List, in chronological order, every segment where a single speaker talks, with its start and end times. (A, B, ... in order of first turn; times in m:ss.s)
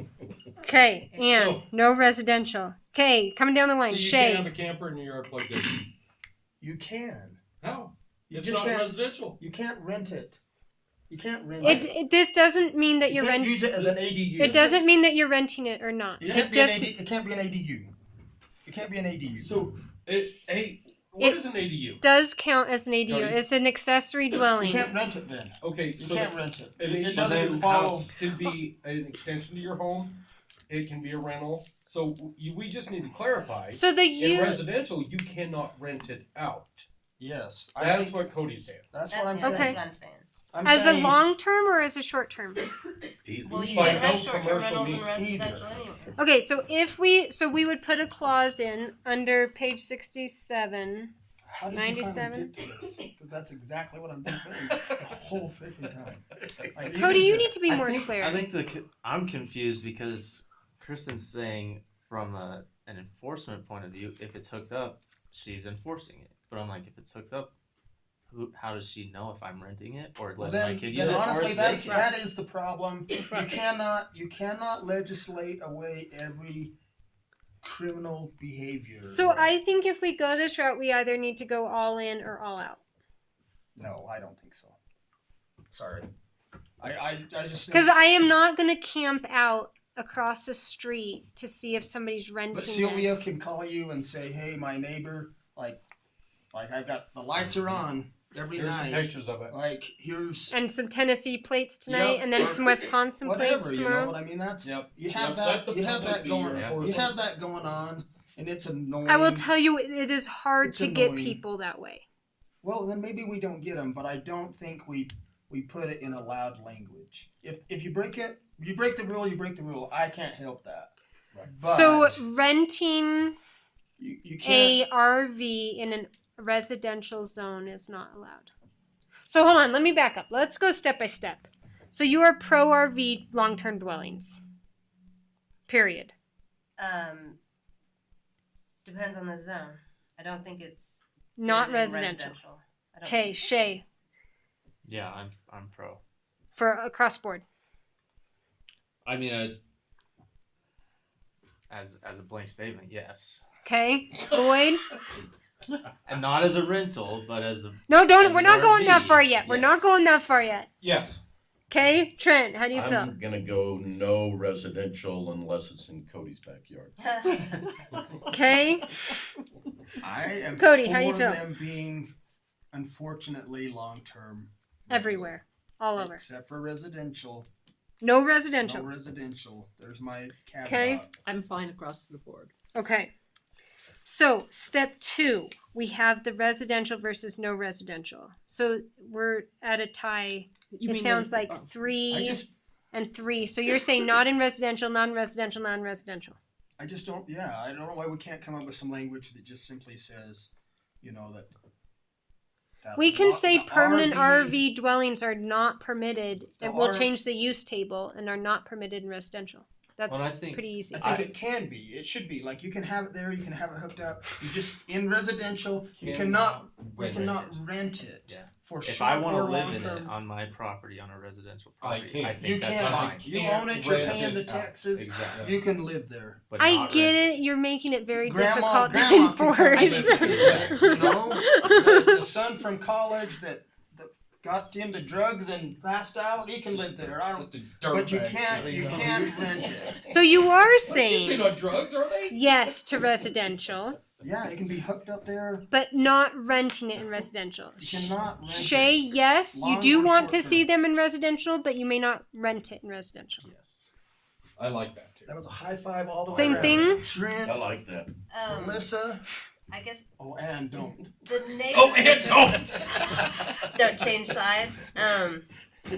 0:00.6-0:04.5 A
0:01.1-0:01.6 B
0:03.8-0:05.9 B
0:06.6-0:07.4 C
0:07.6-0:09.4 B
0:08.3-0:10.4 C
0:11.1-0:11.9 C
0:11.6-0:13.7 A
0:13.1-0:14.7 C
0:14.4-0:16.9 A
0:16.2-0:17.9 C
0:18.6-0:19.5 C
0:19.4-0:22.0 B
0:22.0-0:24.9 A
0:23.1-0:23.4 B
0:24.6-0:28.1 C
0:25.6-0:36.8 B
0:33.7-0:34.6 A
0:37.2-0:39.8 C
0:37.8-0:38.8 B
0:39.1-0:40.3 D
0:39.4-0:39.8 A
0:40.5-0:41.2 C
0:40.6-0:42.6 A
0:43.2-0:44.0 E
0:43.4-0:46.1 D
0:43.6-0:45.1 B
0:45.1-0:45.7 C
0:46.2-0:51.1 A
0:51.5-0:57.5 C
0:51.7-0:52.5 A
0:56.9-0:58.4 A
0:57.7-1:07.5 F
1:08.3-1:12.1 F
1:10.4-1:16.7 C
1:10.9-1:11.2 B
1:17.6-1:19.6 C
1:19.0-1:22.8 A
1:23.8-1:24.8 C
1:25.7-1:26.1 C
1:26.8-1:28.0 C
1:27.7-1:33.3 A
1:32.5-1:35.8 C
1:36.5-1:40.5 C
1:38.6-1:39.5 B
1:40.5-1:44.2 A
1:41.9-1:49.5 C
1:44.6-1:47.2 B
1:49.0-1:52.0 A
1:50.6-1:51.4 C
1:52.6-2:00.9 C
2:01.4-2:02.2 C
2:01.7-2:03.4 A
2:04.0-2:04.8 C
2:04.4-2:08.5 A
2:09.3-2:14.4 A
2:15.7-2:16.1 A
2:16.8-2:17.4 D
2:18.8-2:23.8 D
2:21.4-2:22.4 A
2:23.0-2:23.8 A
2:24.8-2:26.0 F
2:26.6-2:27.4 A
2:29.0-2:29.6 F
2:31.7-2:33.4 F
2:33.6-2:34.8 A
2:36.0-2:40.0 F
2:37.9-2:40.7 A
2:40.8-2:41.2 B
2:41.7-2:43.1 A
2:42.7-2:46.9 E
2:47.0-2:47.4 D
2:48.3-2:48.9 A
2:50.0-2:52.1 C
2:50.6-2:51.4 A
2:52.7-2:55.3 C
2:54.9-2:56.2 A
2:56.0-2:57.5 C
2:58.0-2:58.9 A
2:58.6-3:01.1 C
3:00.6-3:01.0 A
3:01.2-3:02.5 G
3:02.7-3:03.1 A
3:04.0-3:16.4 A
3:10.7-3:11.7 G
3:12.1-3:12.5 C
3:16.8-3:21.5 C
3:22.8-3:24.6 C
3:23.0-3:31.1 A
3:26.6-3:27.1 C
3:30.1-3:31.3 F
3:30.9-3:40.1 C
3:36.0-3:37.6 B
3:36.4-3:37.4 F
3:38.2-3:43.3 F
3:41.8-3:45.5 B
3:42.4-3:46.4 C
3:45.0-3:45.5 F
3:46.5-3:47.4 F
3:46.6-3:52.1 A
3:48.2-3:50.1 C
3:49.8-3:51.2 B
3:50.2-3:50.8 F
3:50.8-3:59.9 C
3:57.3-3:59.5 B
4:00.1-4:01.5 A
4:00.8-4:02.6 B
4:02.3-4:04.0 A
4:04.2-4:05.7 C
4:05.7-4:13.4 A
4:07.8-4:10.7 C
4:13.4-4:13.9 F
4:14.6-4:15.3 B
4:15.2-4:17.6 C
4:16.3-4:17.1 A
4:16.4-4:18.1 E
4:18.3-4:18.9 D
4:18.5-4:19.2 C
4:19.7-4:20.0 D
4:20.2-4:21.1 C
4:21.2-4:22.7 D
4:21.7-4:23.5 B
4:23.7-4:25.5 D